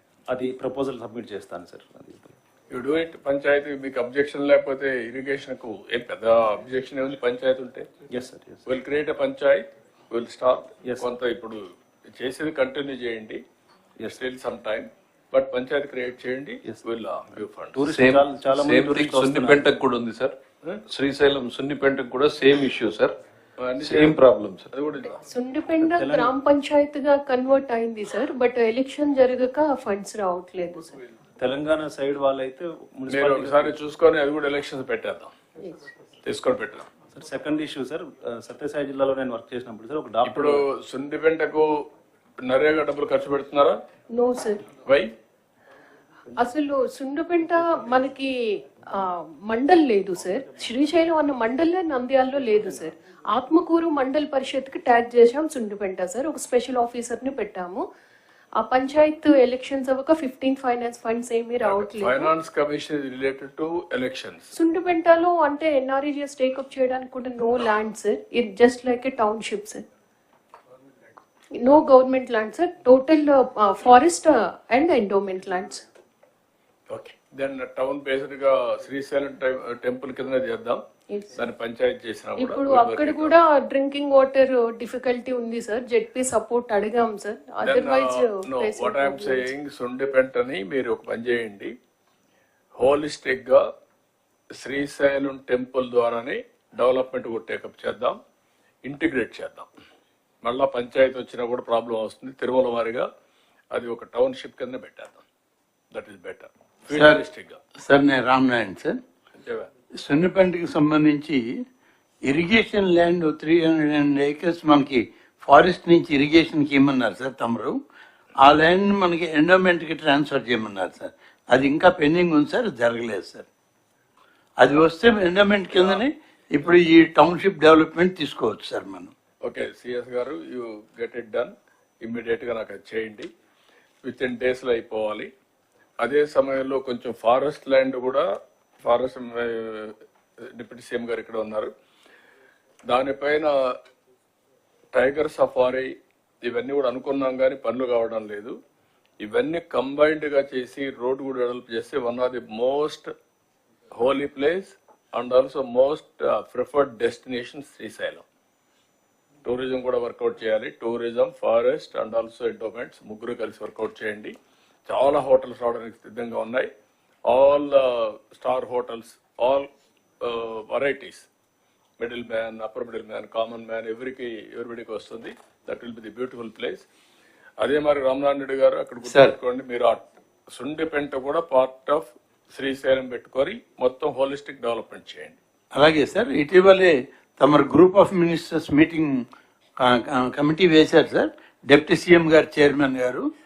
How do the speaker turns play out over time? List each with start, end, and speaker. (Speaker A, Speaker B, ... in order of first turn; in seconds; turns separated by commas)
Speaker A: 0.3-2.4, Speaker B: 2.7-7.9, Speaker A: 8.1-8.6, Speaker B: 8.7-11.6, Speaker A: 10.8-11.1, Speaker B: 12.1-13.4, Speaker B: 14.1-17.8, Speaker A: 17.8-19.7, Speaker C: 17.8-23.2, Speaker B: 23.6-25.2, Speaker C: 23.8-24.7, Speaker D: 25.2-30.9, Speaker A: 25.8-26.3, Speaker A: 31.4-33.8, Speaker B: 33.1-35.3, Speaker B: 36.2-36.9, Speaker A: 37.1-40.6, Speaker B: 40.2-41.7, Speaker B: 42.5-43.8, Speaker D: 44.1-44.7, Speaker B: 44.8-45.1, Speaker D: 46.3-57.8, Speaker D: 58.6-62.3, Speaker B: 61.6-64.5, Speaker D: 64.5-69.8, Speaker D: 71.5-75.8, Speaker B: 76.9-80.8, Speaker D: 81.1-81.3, Speaker B: 81.3-83.3, Speaker D: 82.4-89.5, Speaker B: 87.6-91.7, Speaker B: 92.8-93.6, Speaker B: 94.6-98.2, Speaker B: 98.8-99.7, Speaker B: 100.4-103.1, Speaker B: 103.7-105.2, Speaker B: 105.9-107.6, Speaker E: 106.9-107.2, Speaker E: 107.8-109.0, Speaker B: 109.4-109.7, Speaker E: 110.0-111.4, Speaker E: 112.3-117.8, Speaker E: 118.4-123.5, Speaker E: 124.6-129.1, Speaker B: 125.7-126.0, Speaker B: 129.4-133.3, Speaker B: 134.0-135.3, Speaker B: 136.0-138.3, Speaker B: 138.8-139.9, Speaker B: 140.5-141.7, Speaker B: 142.9-143.5, Speaker B: 144.9-145.9, Speaker B: 146.4-148.6, Speaker B: 149.2-153.1, Speaker B: 153.9-158.2, Speaker B: 159.4-164.3, Speaker B: 164.9-166.7, Speaker B: 167.3-169.7, Speaker B: 170.2-171.3, Speaker B: 172.0-176.8, Speaker B: 177.6-185.4, Speaker E: 179.1-179.4, Speaker E: 185.8-189.2, Speaker E: 189.8-193.2